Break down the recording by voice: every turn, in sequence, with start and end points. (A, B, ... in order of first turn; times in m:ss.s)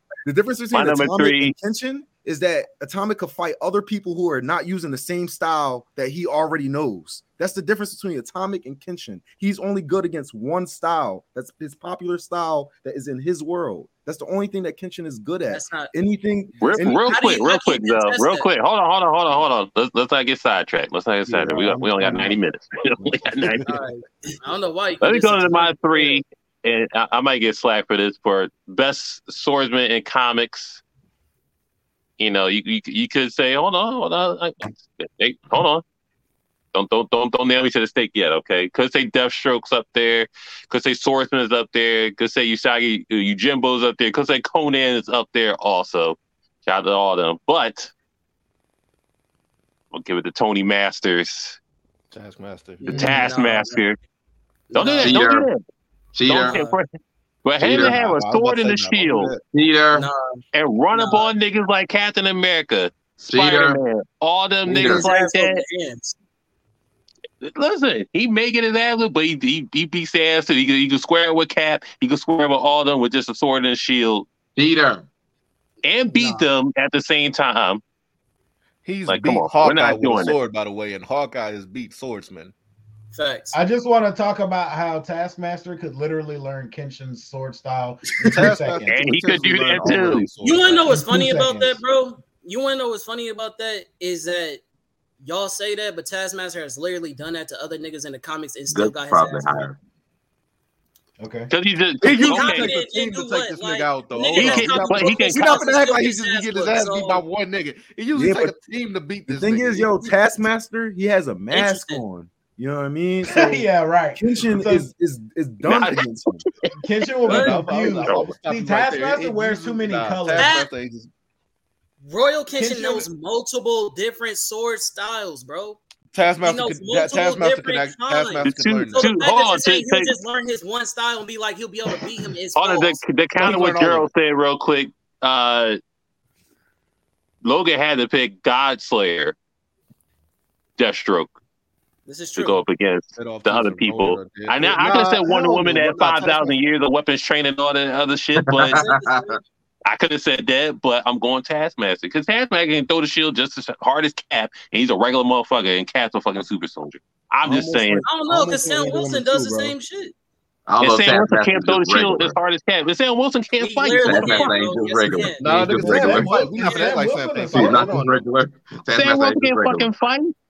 0:00.2-0:17.1 A
0:00.7-0:01.5 B
0:15.5-0:15.9 C
0:16.6-0:23.7 B
0:16.8-0:18.5 C
0:21.3-0:22.4 A
0:23.0-0:23.5 A
0:23.7-0:26.2 C
0:25.0-0:30.8 B
0:32.2-0:35.8 B
0:36.7-0:47.9 B
0:49.9-0:51.6 B
0:52.1-0:53.1 D
0:52.8-0:53.8 C
0:52.9-0:54.0 B
0:54.7-0:55.2 C
0:54.7-0:55.6 B
0:55.0-0:55.5 E
0:56.1-0:56.6 E
0:56.3-0:56.9 B
0:56.4-0:56.8 C
0:57.4-0:59.3 B
0:57.6-0:59.4 D
0:57.6-0:58.0 E
0:59.5-1:00.1 E
0:59.9-1:01.3 C
1:00.5-1:05.6 B
1:03.3-1:03.8 E
1:04.6-1:05.1 E
1:04.8-1:06.2 C
1:07.4-1:14.3 B
1:14.6-1:15.1 E
1:15.8-1:17.8 B
1:16.1-1:16.5 F
1:18.8-1:22.5 D
1:19.1-1:20.4 B
1:23.1-1:23.6 C
1:23.5-1:29.0 F
1:28.2-1:31.0 D
1:28.9-1:30.3 B
1:30.4-1:34.6 C
1:30.9-1:31.8 F
1:35.2-1:39.7 C
1:38.7-1:39.8 E
1:41.2-1:41.5 F
1:41.5-1:42.7 B
1:42.0-1:49.9 D
1:42.2-1:47.2 C
1:44.4-1:45.6 B
1:48.1-1:48.6 A
1:49.3-1:56.4 A
1:51.5-1:52.0 C
1:53.3-1:54.9 F
1:55.7-1:56.1 B
1:56.8-2:00.6 F
1:57.2-2:01.1 D
1:57.3-1:57.5 C
2:00.4-2:00.7 C
2:02.0-2:05.8 C
2:02.6-2:03.1 F
2:06.1-2:09.1 D
2:06.4-2:13.0 C
2:08.4-2:10.2 B
2:12.6-2:15.8 B
2:13.4-2:14.1 D
2:17.4-2:19.4 B
2:20.8-2:21.3 B
2:22.1-2:22.6 C
2:22.4-2:28.8 B
2:23.2-2:26.6 D
2:28.4-2:29.4 E
2:28.7-2:29.4 C
2:29.9-2:38.1 B
2:37.4-2:39.8 A
2:38.1-2:40.1 C
2:40.7-2:42.4 E
2:40.8-2:44.6 B
2:43.6-2:45.4 C
2:44.0-2:46.4 E
2:45.4-2:48.2 D
2:45.8-2:47.9 F
2:47.5-2:49.9 E
2:48.9-2:50.3 B